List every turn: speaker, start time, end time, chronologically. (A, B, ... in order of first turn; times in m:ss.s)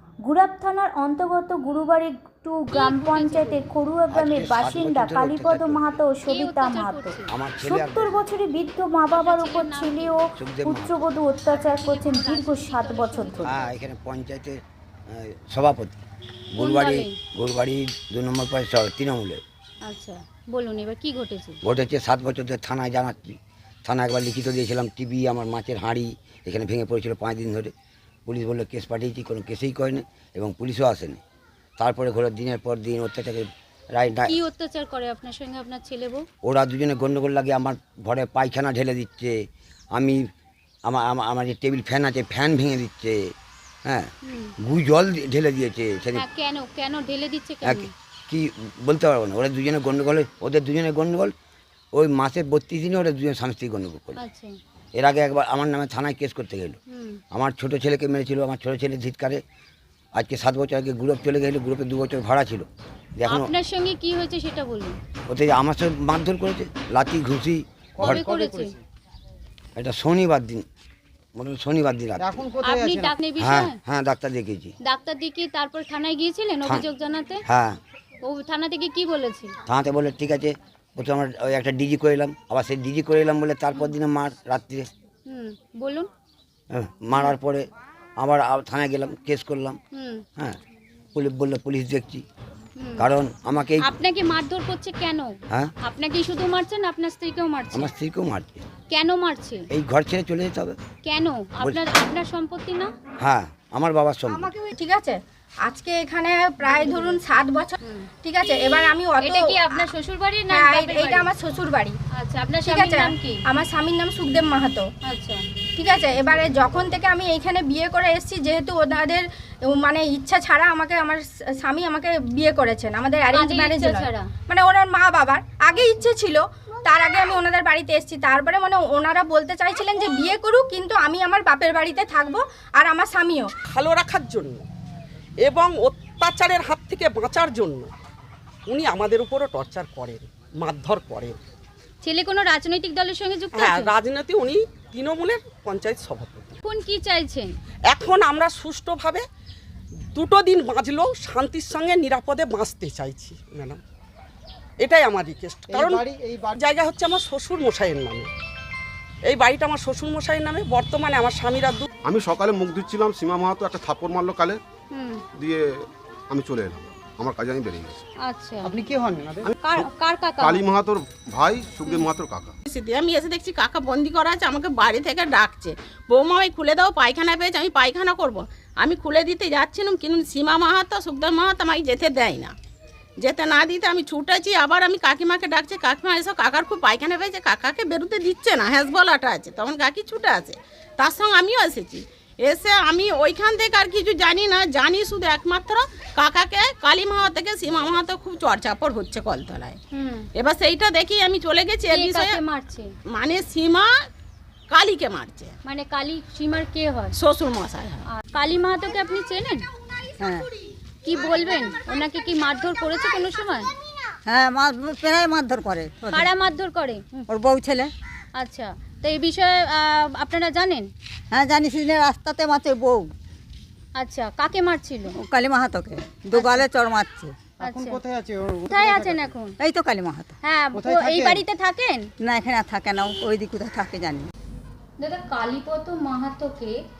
0:00.2-0:13.5 A
0:02.7-0:03.7 B
0:04.1-0:06.0 C
0:06.2-0:07.3 B
0:07.3-0:08.3 C
0:09.0-0:10.2 B
0:10.4-0:11.2 C
0:11.5-0:13.5 B
0:13.4-0:16.0 C
0:16.5-0:19.4 C
0:16.6-0:17.2 B
0:19.8-0:21.6 B
0:21.6-0:27.7 C
0:28.3-0:31.2 C
0:31.8-0:34.3 C
0:34.3-0:36.2 B
0:36.5-0:39.4 C
0:39.9-0:40.3 C
0:40.9-0:43.3 C
0:43.9-0:44.1 C
0:44.2-0:44.5 B
0:44.6-0:46.2 C
0:46.2-0:47.9 B
0:47.6-0:51.3 C
0:52.0-0:54.2 C
0:54.2-0:54.6 B
0:55.0-0:56.8 C
0:56.9-0:57.2 B
0:57.3-0:59.4 C
1:00.2-1:02.7 C
1:03.2-1:03.5 C
1:03.3-1:05.0 B
1:05.3-1:08.3 C
1:08.0-1:08.8 B
1:08.1-1:08.7 D
1:09.8-1:10.6 C
1:11.4-1:12.6 C
1:12.2-1:13.2 D
1:12.6-1:13.8 B
1:13.4-1:14.7 C
1:14.9-1:17.4 B
1:17.5-1:17.8 C
1:18.2-1:19.6 B
1:19.7-1:24.9 C
1:25.3-1:26.1 B
1:26.7-1:27.7 C
1:28.2-1:29.8 C
1:29.9-1:30.2 B
1:31.1-1:32.2 C
1:32.8-1:33.1 B
1:33.0-1:33.9 C
1:33.8-1:37.9 B
1:37.7-1:38.7 C
1:38.9-1:39.7 B
1:39.7-1:40.8 C
1:41.0-1:42.9 B
1:43.2-1:44.5 C
1:44.8-1:49.9 E
1:46.6-1:47.2 B
1:47.8-1:48.1 B
1:48.7-1:51.3 B
1:50.5-1:52.0 E
1:52.1-1:53.4 B
1:52.6-1:54.9 E
1:55.0-1:55.4 B
1:55.8-2:13.5 E
2:03.3-2:04.3 B
2:05.8-2:06.0 B
2:13.7-2:14.7 F
2:15.4-2:17.9 F
2:18.7-2:21.4 F
2:22.0-2:24.0 B
2:23.5-2:26.6 F
2:26.6-2:27.6 B
2:27.9-2:29.2 F
2:30.1-2:33.8 F
2:34.8-2:38.3 F
2:35.7-2:36.4 D
2:39.3-2:41.9 F
2:42.1-2:44.6 G
2:44.9-2:45.2 B
2:45.4-2:48.0 G
2:48.2-2:48.8 B
2:48.7-2:49.5 D
2:49.4-2:49.9 G
2:49.6-2:50.6 B
2:50.4-2:52.5 G
2:52.7-3:02.6 H
3:03.2-3:19.8 H
3:19.9-3:20.3 B
3:20.4-3:22.4 H
3:21.9-3:22.9 B
3:23.1-3:23.9 H
3:24.7-3:25.6 H
3:25.6-3:27.2 B
3:27.2-3:28.0 H
3:28.1-3:29.7 B
3:30.2-3:30.5 I
3:31.0-3:33.7 B
3:34.3-3:36.3 I
3:36.1-3:37.2 B
3:37.3-3:37.9 I
3:38.4-3:40.9 B
3:41.3-3:43.1 I
3:44.0-3:45.2 B
3:45.2-3:47.4 I
3:46.3-3:46.7 B
3:47.6-3:48.0 B
3:47.6-3:49.3 D
3:48.7-3:49.6 B
3:49.6-3:50.3 I
3:50.4-3:52.1 B
3:50.7-3:51.4 D
3:52.2-3:54.3 I
3:55.0-3:56.8 B